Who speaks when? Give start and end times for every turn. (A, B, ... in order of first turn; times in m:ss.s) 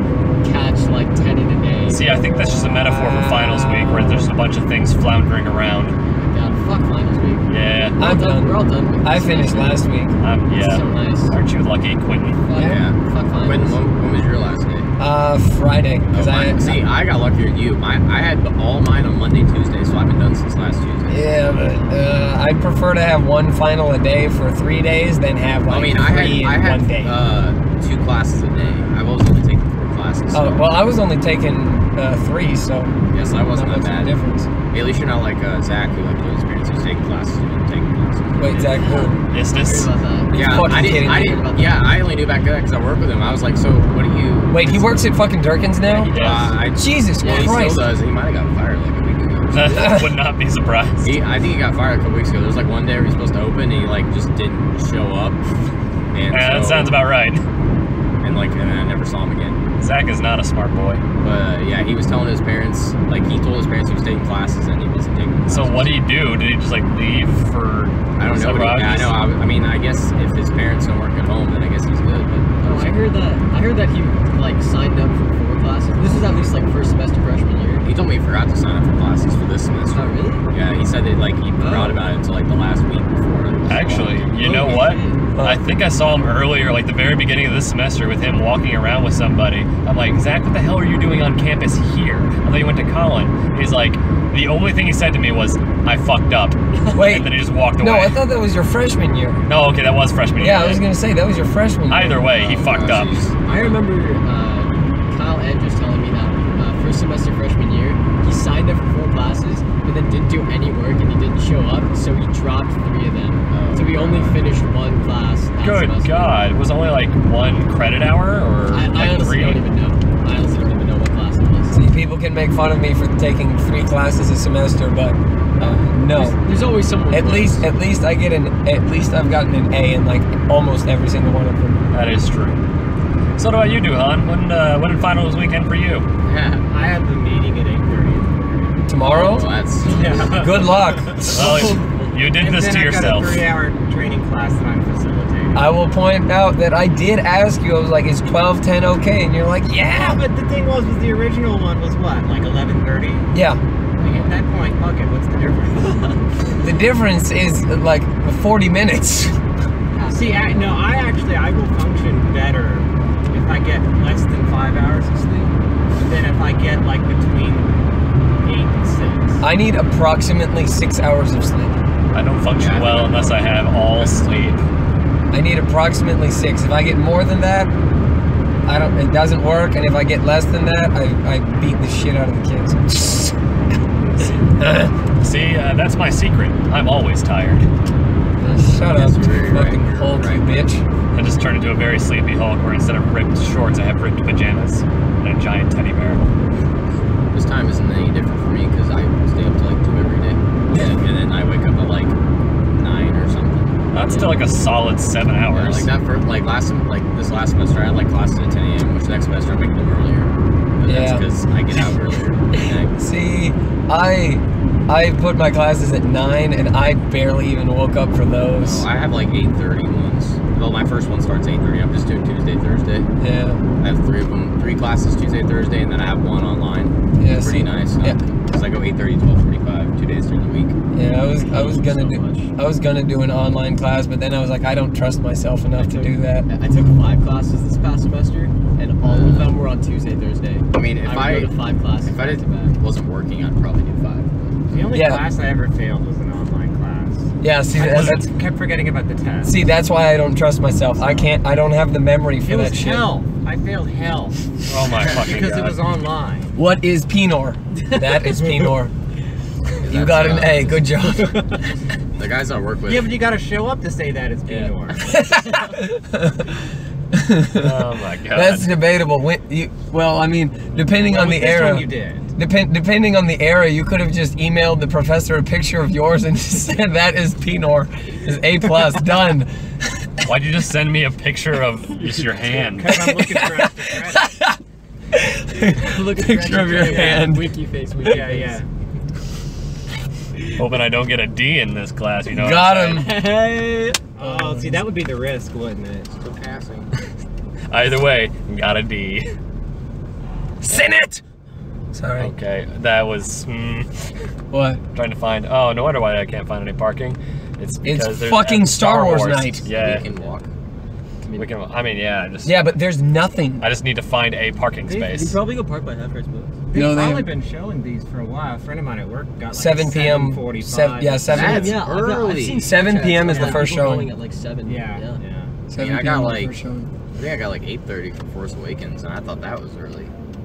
0:00.4-0:02.1 A
0:01.9-0:06.0 B
0:02.0-0:04.3 C
0:06.2-0:09.8 A
0:07.5-0:08.0 B
0:08.0-0:10.1 C
0:10.2-0:12.4 B
0:10.5-0:11.3 A
0:12.4-0:13.8 A
0:12.5-0:12.8 C
0:12.6-0:14.9 D
0:15.0-0:16.8 C
0:16.1-0:21.8 D
0:21.1-0:27.2 C
0:25.7-0:30.7 D
0:30.3-0:34.5 C
0:33.1-0:34.1 D
0:34.7-0:38.8 D
0:38.4-0:39.2 C
0:38.5-0:42.0 A
0:39.3-0:39.9 B
0:40.3-0:41.4 C
0:40.3-0:45.1 D
0:44.5-0:46.1 C
0:45.8-0:46.6 A
0:46.1-0:46.5 B
0:46.1-0:50.1 D
0:46.7-0:47.9 C
0:47.2-0:47.7 A
0:49.5-0:51.2 B
0:49.7-0:50.1 C
0:51.0-0:55.4 D
0:56.1-0:57.0 D
0:56.3-0:57.4 B
0:58.2-0:59.6 D
0:59.8-1:01.0 B
1:01.2-1:05.9 D
1:05.5-1:09.2 B
1:08.2-1:13.0 D
1:12.6-1:17.8 A
1:17.8-1:24.7 D
1:19.9-1:20.4 A
1:21.6-1:22.2 A
1:23.7-1:38.2 B
1:24.3-1:25.3 A
1:25.4-1:25.6 C
1:36.9-1:39.4 C
1:39.4-1:40.8 B
1:40.4-1:42.3 C
1:41.9-1:43.2 B
1:42.3-1:43.8 D
1:43.4-1:56.3 A
1:53.5-1:54.5 D
1:55.6-1:59.6 B
1:58.7-2:01.8 A
2:01.7-2:06.4 C
2:06.1-2:07.6 A
2:07.1-2:11.9 C
2:11.9-2:12.6 B
2:13.4-2:16.1 B
2:16.2-2:16.7 D
2:16.7-2:19.0 E
2:18.9-2:19.4 C
2:19.0-2:20.5 D
2:19.8-2:21.4 E
2:20.4-2:21.6 C
2:21.3-2:23.4 B
2:21.3-2:22.1 A
2:22.4-2:25.8 E
2:25.5-2:30.2 C
2:29.9-2:33.3 E
2:33.3-2:33.6 C
2:34.0-2:34.4 D
2:34.1-2:36.1 E
2:35.7-2:36.2 A
2:36.6-2:39.4 C
2:39.9-2:40.8 A
2:40.1-2:47.8 E
2:48.4-2:49.4 E
2:49.4-2:51.7 C
2:52.1-2:54.6 B
2:52.6-2:54.3 D
2:55.3-2:57.7 C
2:58.6-3:03.4 C
3:04.4-3:04.9 C
3:05.1-3:07.7 B
3:08.4-3:10.8 C
3:08.8-3:10.7 D
3:11.1-3:16.3 B
3:17.3-3:22.1 D
3:22.7-3:24.5 D
3:23.9-3:25.9 B
3:25.5-3:33.0 D
3:30.8-3:31.2 C
3:33.0-3:38.9 C
3:38.6-3:43.1 D
3:43.2-3:43.6 C
3:43.8-3:50.7 D
3:47.2-3:48.2 C
3:50.9-3:56.5 C
3:51.3-3:52.5 A
3:55.7-4:02.7 A
3:59.0-3:59.5 D
4:00.7-4:04.9 D
4:04.7-4:09.5 E
4:04.9-4:05.3 C
4:07.4-4:08.3 C
4:07.8-4:08.2 B
4:09.4-4:13.2 C
4:11.0-4:11.3 E
4:12.4-4:16.6 E
4:14.7-4:15.8 B
4:16.6-4:18.9 C
4:18.3-4:18.6 E
4:19.8-4:20.9 D
4:19.8-4:21.6 C
4:21.0-4:21.6 E
4:22.2-4:23.2 D
4:22.8-4:25.2 E
4:25.0-4:26.6 C
4:27.1-4:40.2 C
4:27.5-4:28.7 B
4:30.9-4:32.3 E
4:40.2-4:43.1 B
4:42.6-4:44.3 E
4:42.9-4:44.6 C
4:45.1-4:47.5 C
4:45.7-4:48.6 A
4:46.7-4:47.3 E
4:48.0-4:48.7 E
4:50.6-4:53.1 B
4:52.3-4:53.2 C
4:52.9-4:54.0 A
4:54.2-4:56.1 E
4:54.2-4:54.8 C
4:56.1-4:56.9 D
4:57.7-4:59.3 B
5:00.6-5:01.2 C
5:01.9-5:02.3 C
5:02.2-5:04.1 B
5:04.5-5:04.8 C
5:04.9-5:10.1 B
5:07.8-5:09.7 C
5:09.6-5:10.5 D
5:11.2-5:11.5 A
5:11.4-5:12.6 B
5:12.4-5:13.6 C
5:13.6-5:15.4 B
5:14.8-5:16.6 A
5:16.7-5:21.6 E
5:16.7-5:17.3 C
5:19.5-5:21.8 C
5:21.3-5:22.8 D
5:21.3-5:25.2 A
5:22.6-5:24.1 C
5:23.2-5:23.6 E
5:24.6-5:25.7 E
5:25.7-5:26.9 C
5:25.7-5:26.5 D
5:27.1-5:30.1 D